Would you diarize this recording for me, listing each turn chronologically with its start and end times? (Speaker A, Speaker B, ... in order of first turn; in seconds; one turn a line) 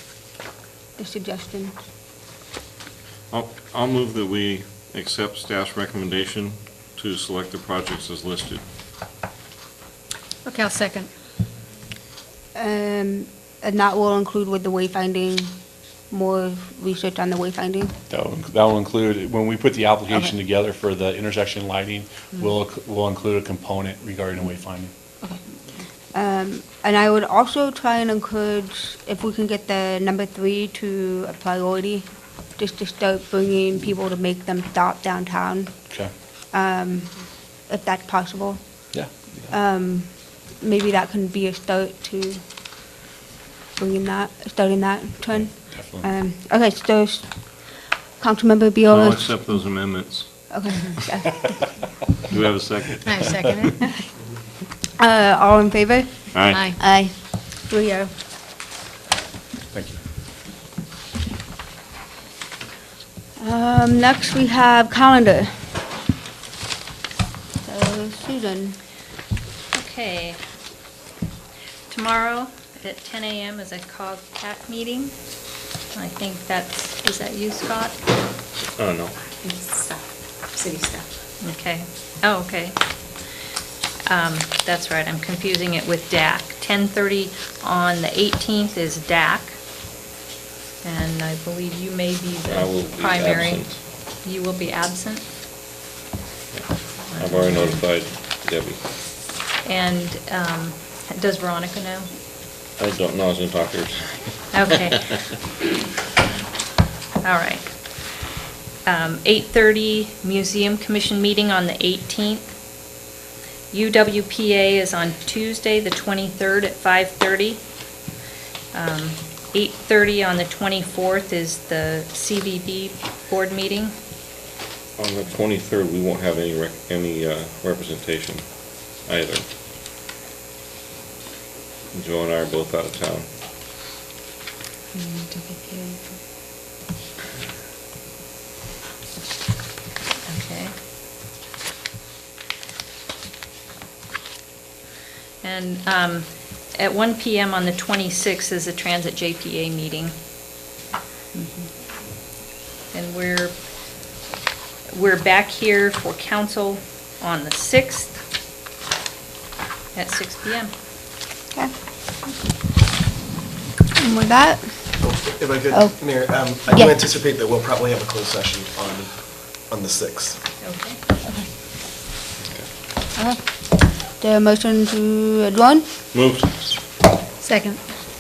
Speaker A: 1.0-1.8
Speaker B: 3.3-8.6
Speaker C: 10.4-11.1
Speaker A: 12.6-15.6
Speaker A: 16.1-17.9
Speaker D: 18.1-24.9
Speaker A: 26.1-32.1
Speaker A: 32.6-35.8
Speaker A: 36.5-37.1
Speaker A: 37.7-38.6
Speaker A: 39.5-42.4
Speaker A: 43.8-47.5
Speaker D: 45.7-46.1
Speaker A: 48.2-49.3
Speaker B: 48.9-51.0
Speaker A: 50.5-51.5
Speaker B: 52.3-53.3
Speaker C: 53.0-53.8
Speaker A: 53.8-54.1
Speaker A: 55.0-58.1
Speaker B: 56.3-56.7
Speaker C: 56.5-56.8
Speaker D: 59.7-60.0
Speaker A: 63.4-65.7
Speaker A: 67.6-68.8
Speaker E: 69.7-70.4
Speaker E: 71.9-75.2
Speaker E: 75.9-78.0
Speaker B: 78.6-79.2
Speaker C: 80.6-81.0
Speaker E: 81.4-82.8
Speaker E: 84.0-89.6
Speaker E: 90.8-95.3
Speaker B: 92.5-93.8
Speaker B: 96.5-98.8
Speaker E: 99.7-102.1
Speaker B: 102.8-105.2
Speaker E: 104.5-105.1
Speaker E: 107.2-107.7
Speaker E: 108.8-112.5
Speaker E: 113.7-117.6
Speaker E: 118.7-124.0
Speaker B: 125.0-129.5
Speaker B: 131.9-133.3
Speaker A: 134.9-136.1
Speaker E: 140.3-140.7
Speaker E: 145.4-150.2
Speaker E: 152.9-153.6
Speaker E: 154.9-158.2
Speaker E: 159.9-160.7
Speaker A: 163.9-164.8
Speaker F: 165.0-169.1
Speaker F: 169.7-170.4
Speaker E: 170.6-171.0
Speaker B: 172.4-172.7
Speaker A: 173.2-173.4
Speaker A: 174.2-175.9
Speaker B: 176.1-176.7
Speaker C: 177.4-177.8